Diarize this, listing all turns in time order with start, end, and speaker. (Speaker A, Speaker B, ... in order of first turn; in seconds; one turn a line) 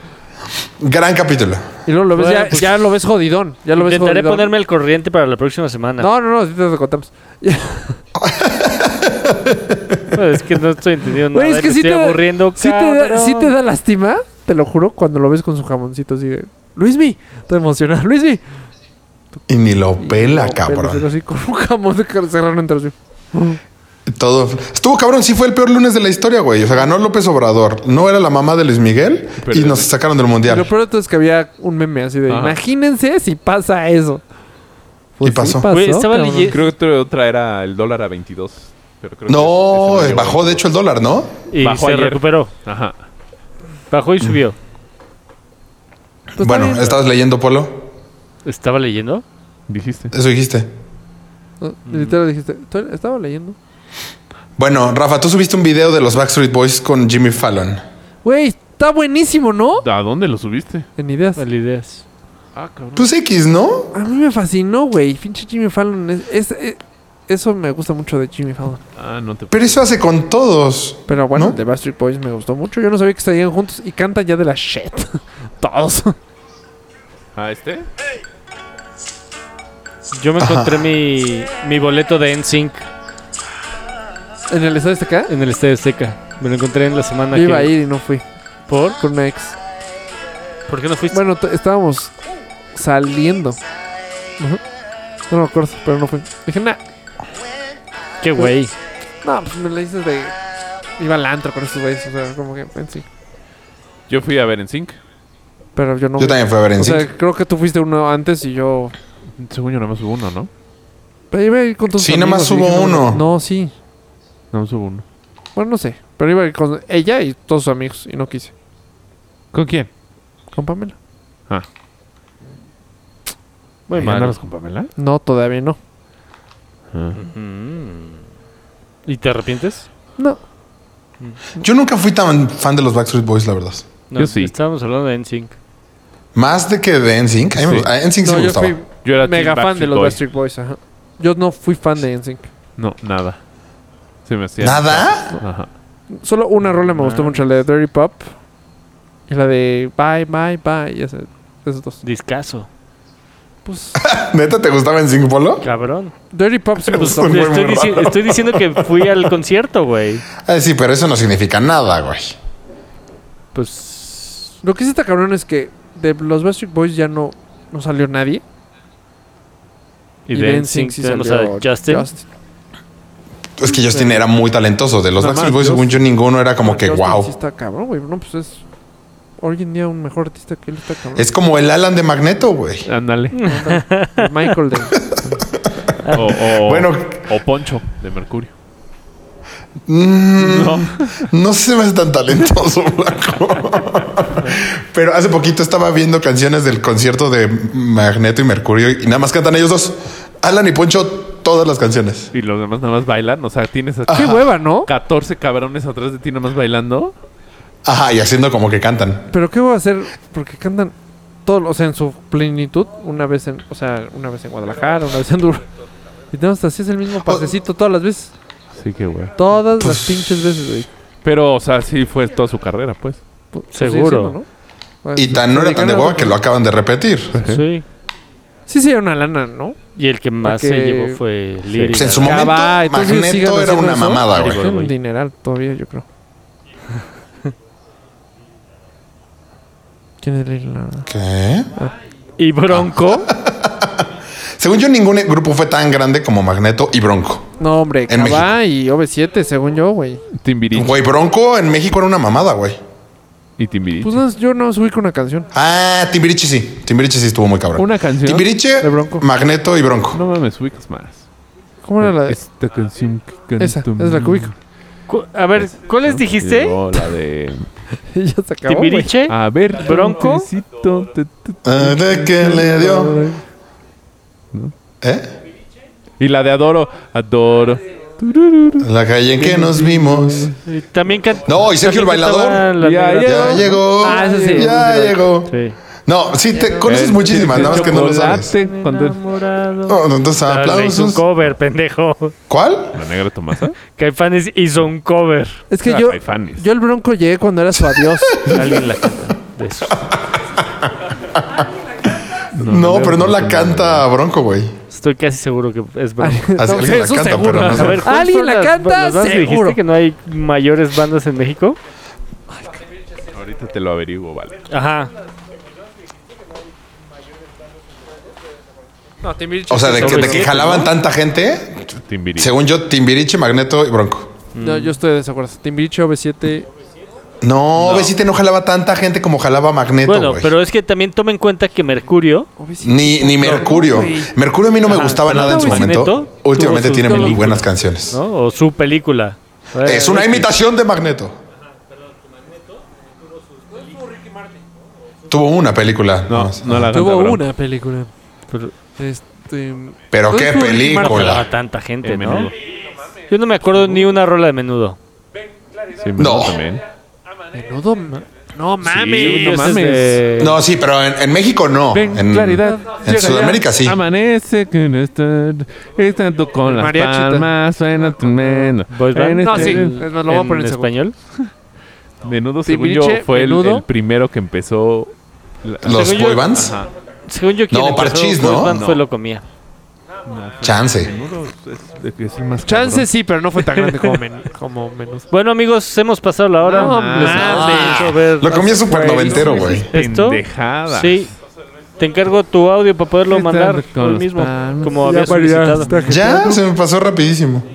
Speaker A: 0.8-1.6
Speaker B: 1.9-4.5
Speaker C: 2.1-2.7
Speaker C: 3.8-6.1
Speaker B: 6.0-8.0
Speaker A: 8.2-10.0
Speaker C: 10.1-13.5
Speaker B: 11.3-18.4
Speaker A: 19.5-21.0
Speaker B: 20.0-23.6
Speaker A: 24.1-30.7
Speaker D: 29.4-29.9
Speaker B: 30.4-34.2
Speaker D: 32.3-32.6
Speaker B: 35.2-36.6
Speaker A: 35.2-35.7
Speaker C: 35.7-36.6
Speaker D: 36.5-40.6
Speaker A: 39.3-41.3
Speaker C: 41.5-42.5
Speaker D: 41.6-43.0
Speaker C: 43.9-44.5
Speaker A: 46.4-47.8
Speaker B: 46.4-47.0
Speaker C: 48.4-49.2
Speaker D: 49.7-50.1
Speaker A: 50.1-50.7
Speaker B: 51.6-53.5
Speaker A: 54.6-57.8
Speaker B: 58.2-59.8
Speaker D: 59.8-60.9
Speaker B: 61.0-61.4
Speaker C: 61.4-62.0
Speaker D: 62.5-63.1
Speaker A: 63.0-63.9
Speaker B: 63.9-68.8
Speaker D: 69.0-69.9
Speaker A: 69.5-71.6
Speaker B: 71.1-76.2
Speaker D: 77.3-77.9
Speaker C: 80.1-82.8
Speaker A: 80.4-80.9
Speaker B: 84.5-85.3
Speaker C: 85.3-87.7
Speaker B: 87.3-88.2
Speaker C: 88.7-89.0
Speaker B: 89.0-89.5
Speaker C: 90.7-91.2
Speaker B: 91.1-92.1
Speaker B: 92.7-93.6
Speaker B: 95.3-96.8
Speaker C: 98.2-98.7
Speaker B: 99.2-100.3
Speaker B: 101.0-103.0
Speaker D: 104.1-105.0
Speaker B: 105.7-108.9
Speaker A: 106.2-107.1
Speaker D: 109.4-110.5
Speaker B: 111.3-113.7
Speaker A: 112.0-113.2
Speaker D: 114.5-115.0
Speaker B: 115.5-118.5
Speaker D: 119.5-119.9
Speaker B: 120.5-120.9
Speaker C: 123.9-124.3
Speaker D: 124.0-124.9
Speaker B: 125.0-125.8
Speaker C: 127.1-128.2
Speaker C: 129.1-129.9
Speaker A: 131.6-133.8
Speaker C: 134.1-135.5
Speaker D: 134.2-134.5
Speaker A: 136.3-138.8
Speaker D: 137.6-137.9
Speaker B: 138.2-142.5
Speaker D: 139.0-140.2
Speaker D: 142.8-143.4
Speaker D: 144.2-145.7
Speaker A: 144.6-145.3
Speaker B: 146.1-148.3
Speaker C: 147.0-147.3
Speaker B: 149.3-152.0
Speaker C: 152.0-152.7
Speaker B: 153.6-154.0
Speaker A: 154.0-155.6
Speaker C: 155.6-156.1
Speaker B: 156.3-157.5
Speaker A: 156.8-158.8
Speaker C: 157.0-160.2
Speaker A: 160.4-162.3
Speaker C: 163.5-164.6
Speaker B: 164.6-168.4
Speaker C: 170.3-172.1
Speaker B: 170.3-172.3
Speaker A: 173.6-177.3
Speaker B: 175.2-175.9
Speaker B: 176.6-178.6
Speaker B: 179.4-181.3
Speaker A: 181.2-182.9
Speaker D: 182.8-183.4
Speaker C: 183.3-184.3
Speaker B: 183.4-185.5
Speaker A: 185.1-187.2
Speaker D: 186.1-188.5
Speaker A: 189.9-202.3
Speaker D: 190.4-191.3
Speaker D: 202.3-207.1
Speaker A: 204.1-204.4
Speaker B: 204.1-204.9
Speaker A: 207.8-209.3
Speaker B: 209.3-215.6
Speaker B: 216.3-218.3
Speaker D: 218.7-219.3
Speaker B: 219.4-220.9
Speaker A: 219.8-220.4
Speaker D: 221.2-223.2
Speaker B: 223.5-224.4
Speaker C: 223.7-224.3
Speaker B: 225.0-226.4
Speaker A: 225.2-227.4
Speaker D: 227.3-227.6
Speaker C: 227.4-227.8
Speaker B: 228.7-229.8
Speaker C: 229.9-232.4
Speaker B: 230.4-231.2
Speaker B: 231.9-236.0
Speaker A: 231.9-234.6
Speaker C: 234.3-234.9
Speaker B: 240.2-241.1
Speaker A: 241.0-241.7
Speaker C: 242.4-243.3
Speaker A: 242.7-247.5
Speaker B: 247.6-250.2
Speaker A: 248.1-248.5
Speaker D: 250.3-250.9
Speaker A: 250.7-252.8
Speaker D: 253.6-254.2
Speaker B: 254.0-255.5
Speaker A: 255.5-260.2
Speaker D: 257.8-258.5
Speaker B: 258.8-259.3
Speaker D: 260.1-261.2
Speaker B: 261.8-262.4
Speaker D: 262.0-264.5
Speaker B: 263.6-264.5
Speaker C: 265.1-266.8
Speaker D: 265.6-267.7
Speaker B: 268.1-269.1
Speaker C: 268.7-270.5
Speaker D: 269.3-271.8
Speaker A: 271.6-273.3
Speaker B: 271.8-273.4
Speaker A: 275.0-275.3
Speaker D: 276.2-278.9
Speaker A: 278.8-280.5
Speaker C: 279.4-283.6
Speaker A: 281.4-282.7
Speaker D: 282.8-284.8
Speaker A: 283.2-285.5
Speaker B: 284.0-285.2
Speaker C: 285.4-285.8
Speaker A: 286.1-288.5
Speaker B: 286.5-286.9
Speaker D: 286.8-289.2
Speaker C: 287.5-292.3
Speaker A: 289.9-291.2
Speaker A: 292.5-293.0
Speaker D: 292.9-293.8
Speaker C: 293.9-295.6
Speaker B: 295.7-298.6
Speaker D: 295.8-296.6
Speaker C: 298.4-300.1
Speaker D: 302.5-304.1
Speaker A: 302.6-304.8
Speaker C: 304.9-306.5
Speaker B: 306.2-309.8
Speaker A: 306.6-308.1
Speaker C: 307.5-311.8
Speaker D: 313.3-314.6
Speaker C: 314.7-315.1
Speaker B: 319.2-320.9
Speaker A: 319.7-324.3
Speaker C: 319.9-320.6
Speaker D: 322.1-322.5
Speaker C: 324.5-324.9
Speaker B: 324.6-326.7
Speaker A: 327.4-330.5
Speaker D: 327.8-328.1
Speaker C: 330.1-332.5
Speaker B: 332.6-334.3
Speaker A: 332.8-338.2
Speaker C: 334.9-340.5
Speaker B: 334.9-336.0
Speaker B: 336.9-337.4
Speaker A: 339.8-341.3
Speaker A: 345.3-346.9
Speaker D: 346.3-347.4
Speaker B: 346.9-348.1
Speaker B: 348.9-351.4
Speaker A: 350.1-351.4
Speaker C: 350.9-352.5
Speaker D: 352.0-352.5
Speaker C: 353.3-355.0
Speaker D: 355.9-356.8
Speaker A: 356.2-356.6
Speaker B: 357.5-359.8
Speaker D: 358.8-360.2
Speaker C: 358.9-360.6
Speaker A: 360.4-364.0
Speaker B: 361.9-363.6
Speaker D: 361.9-370.0
Speaker B: 366.6-367.5
Speaker B: 368.1-368.7
Speaker C: 368.9-371.1
Speaker B: 369.4-370.9
Speaker D: 372.2-375.1
Speaker B: 372.6-373.8
Speaker D: 375.6-376.9
Speaker A: 375.8-376.8
Speaker C: 375.9-376.6
Speaker C: 377.3-379.4
Speaker A: 377.7-378.8
Speaker D: 378.6-379.0
Speaker D: 380.2-383.1
Speaker A: 380.6-381.1
Speaker B: 382.6-385.3
Speaker C: 385.3-388.6
Speaker D: 386.6-387.8
Speaker B: 386.7-389.9
Speaker A: 387.4-389.9
Speaker D: 389.8-391.3
Speaker C: 389.9-391.3
Speaker C: 392.0-396.0
Speaker D: 393.3-394.5
Speaker B: 394.4-396.6
Speaker A: 396.0-397.6